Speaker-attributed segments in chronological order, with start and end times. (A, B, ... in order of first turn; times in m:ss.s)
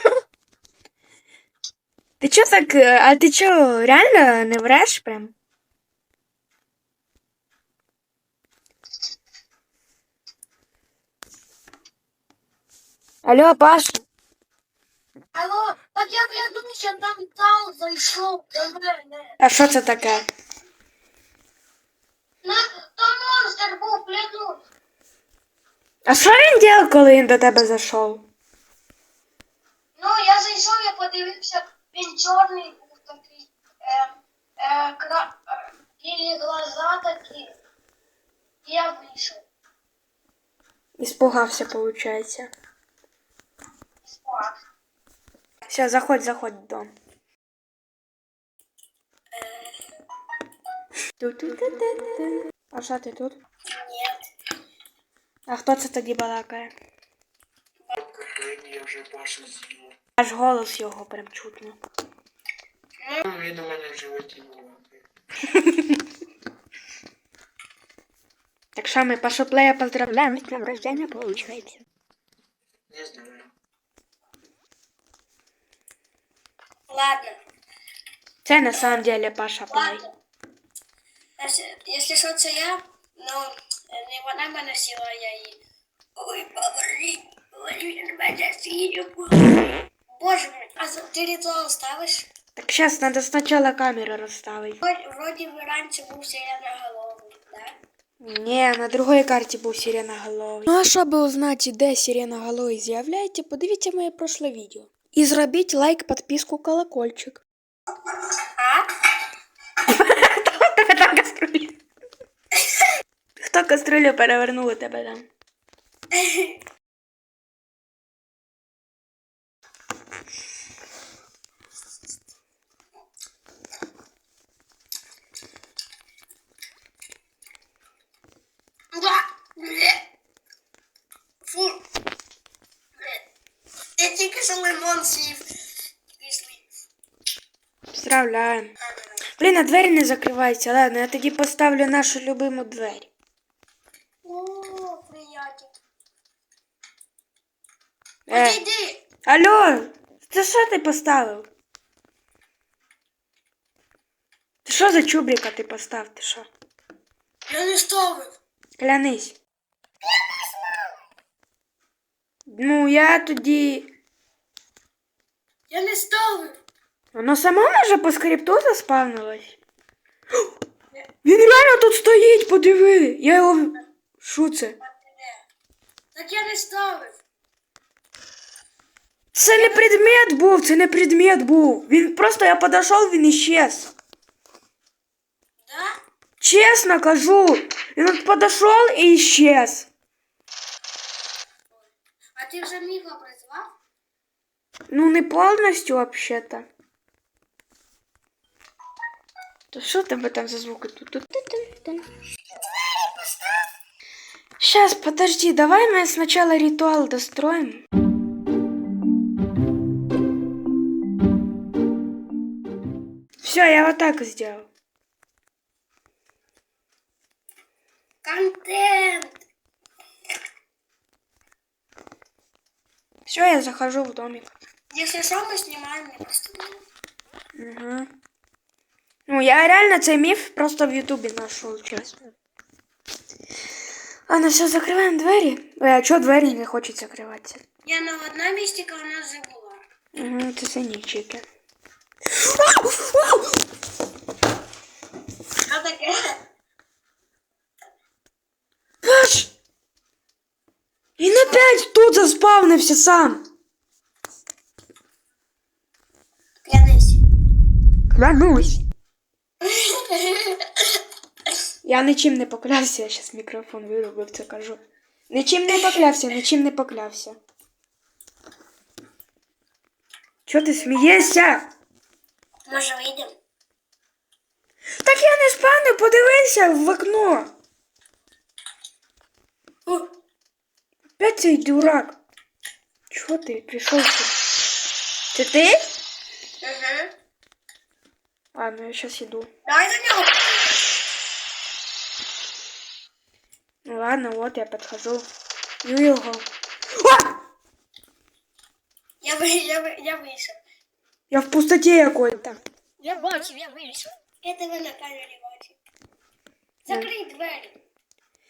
0:02.2-0:05.3 A
0:13.2-0:14.0 A
0:15.3-0:19.3 B
0:19.4-0:20.2 A
0:22.4-0:24.6 B
0:26.0-0:28.2 A
0:30.0-0:37.5 B
0:38.6-0:39.4 B
0:41.0-0:42.5 A
0:44.0-0:44.6 B
0:45.7-0:46.9 A
0:49.3-0:49.8 B
0:51.2-0:53.4 A
0:53.7-0:54.2 B
0:55.5-0:56.7 A
0:57.8-0:58.2 B
0:58.4-0:59.6 C
1:00.2-1:01.8 A
1:03.4-1:04.8 C
1:05.5-1:05.9 A
1:08.8-1:11.8 A
1:16.9-1:17.4 B
1:18.4-1:20.0 A
1:19.7-1:20.1 B
1:21.4-1:25.6 B
1:26.2-1:29.6 B
1:30.2-1:32.3 B
1:32.6-1:34.8 A
1:34.8-1:37.8 B
1:38.2-1:47.4 A
1:48.6-1:48.9 B
1:49.8-1:51.8 A
1:52.6-1:52.9 B
1:53.4-1:55.3 A
1:56.1-1:56.6 B
2:08.9-2:10.0 B
2:11.4-2:11.8 B
2:14.0-2:15.4 B
2:16.2-2:16.6 B
2:17.9-2:18.7 A
2:19.4-2:23.1 A
2:24.2-2:25.8 B
2:28.3-2:28.6 A
2:28.3-2:29.0 B
2:29.2-2:31.5 A
2:34.6-2:36.5 A
2:37.5-2:38.3 B
2:38.8-2:39.4 A
2:42.5-2:43.9 A
2:45.7-2:46.5 B
2:47.1-2:49.6 A
2:51.2-2:54.8 A
2:54.8-2:55.4 B
2:56.1-2:57.2 B
2:59.3-3:03.9 A
2:59.5-3:00.1 B
3:05.6-3:05.9 B
3:06.4-3:09.9 A
3:12.4-3:13.7 B
3:14.9-3:16.6 A
3:19.7-3:22.0 A
3:24.6-3:27.8 A
3:33.4-3:34.7 A
3:38.2-3:39.4 B
3:43.2-3:44.5 A
3:44.9-3:46.8 B
3:47.6-3:48.1 A
3:49.3-3:52.1 A
3:54.3-3:57.6 A
3:57.8-3:59.8 B
4:00.1-4:01.4 A
4:02.4-4:03.4 A
4:05.7-4:06.4 B
4:09.0-4:09.5 A
4:11.2-4:13.4 A
4:16.6-4:17.2 B
4:18.1-4:18.8 A
4:19.6-4:21.0 B
4:21.8-4:24.8 A
4:25.3-4:27.4 A
4:25.7-4:26.0 B
4:30.4-4:31.7 A
4:32.7-4:33.4 B
4:35.0-4:37.5 A
4:41.2-4:42.2 A
4:43.1-4:44.3 A
4:45.3-4:45.8 A
4:46.6-4:47.1 B
4:48.5-4:49.5 A
4:49.6-4:50.8 B
4:53.8-4:55.2 A
4:55.8-4:56.4 A
4:57.0-4:57.3 A
4:59.2-5:00.6 B
5:01.3-5:02.6 A
5:03.0-5:05.8 B
5:06.8-5:07.8 B